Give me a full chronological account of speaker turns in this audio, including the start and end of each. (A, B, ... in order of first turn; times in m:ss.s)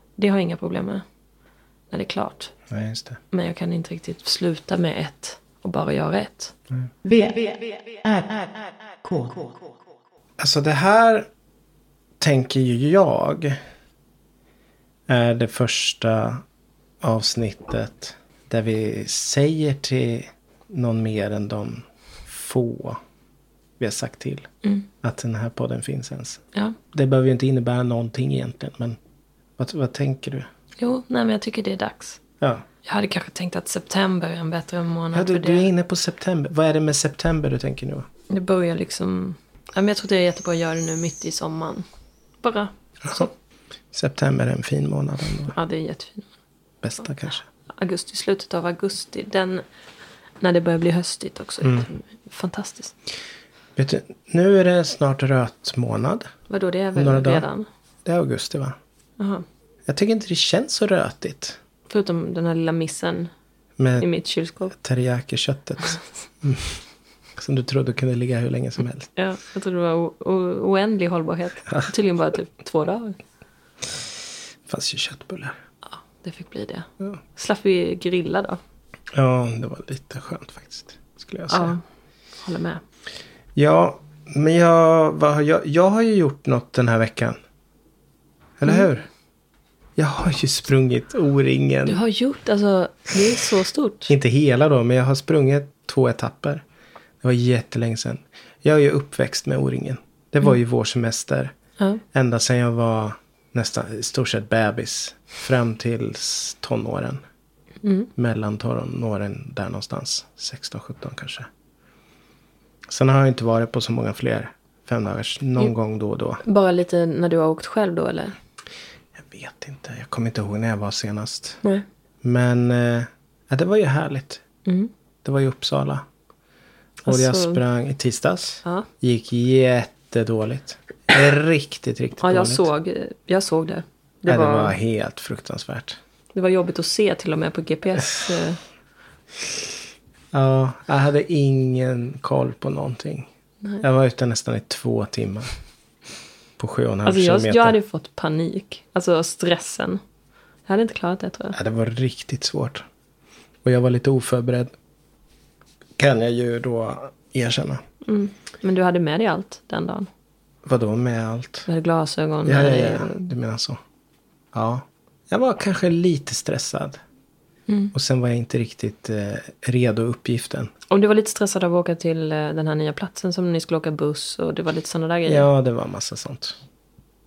0:00.2-0:01.0 A
0:01.9-0:02.5 A
0:02.7-0:03.2 B
0:03.3-0:06.6 A
0:07.0-0:09.7 C
0:10.4-0:11.3 B
0:12.2-0:13.6 B
0:15.1-0:16.4 B
0:17.0-0:23.0 B
0:23.8-0:24.5 B
0:25.0-0:29.0 B
0:29.6-0:30.5 B
0:30.8-0:32.2 A
0:32.8-0:35.7 A
0:35.1-0:38.1 B
0:38.3-0:41.8 A
0:42.4-0:43.3 A
0:43.0-0:43.3 B
0:43.9-0:45.6 B
0:45.5-0:46.3 A
0:46.8-0:47.4 B
0:47.8-0:49.6 A
0:50.4-0:53.0 A
0:53.8-0:56.3 B
0:56.5-0:57.7 A
0:57.0-0:57.5 B
0:58.0-0:58.8 B
0:59.2-0:59.4 A
0:59.9-1:01.6 B
1:01.9-1:03.3 A
1:03.8-1:04.1 B
1:04.0-1:04.8 A
1:04.7-1:06.8 B
1:07.4-1:09.1 B
1:09.2-1:13.2 A
1:14.7-1:15.6 B
1:15.9-1:18.6 A
1:19.1-1:21.7 B
1:21.5-1:21.8 A
1:22.4-1:22.8 A
1:23.6-1:27.4 B
1:28.6-1:29.1 B
1:30.0-1:32.0 B
1:31.9-1:34.1 A
1:34.1-1:36.6 B
1:37.2-1:41.5 B
1:42.1-1:47.2 B
1:47.8-1:48.1 A
1:48.2-1:51.5 B
1:52.9-1:56.4 B
1:56.4-1:58.4 A
1:59.2-2:01.6 B
2:02.2-2:04.4 B
2:05.2-2:06.0 B
2:07.0-2:07.6 A
2:07.1-2:12.7 B
2:12.2-2:14.8 A
2:14.3-2:16.0 B
2:16.3-2:18.6 A
2:20.3-2:23.3 B
2:23.8-2:25.5 B
2:26.6-2:27.8 B
2:27.0-2:30.0 A
2:30.7-2:31.6 A
2:31.5-2:32.9 B
2:33.6-2:34.7 B
2:36.0-2:37.8 B
2:38.0-2:40.1 A
2:40.6-2:41.7 B
2:41.7-2:43.3 A
2:42.4-2:43.8 B
2:44.5-2:47.0 B
2:47.7-2:47.9 A
2:47.9-2:50.7 B
2:50.9-2:55.5 A
2:55.3-2:56.6 B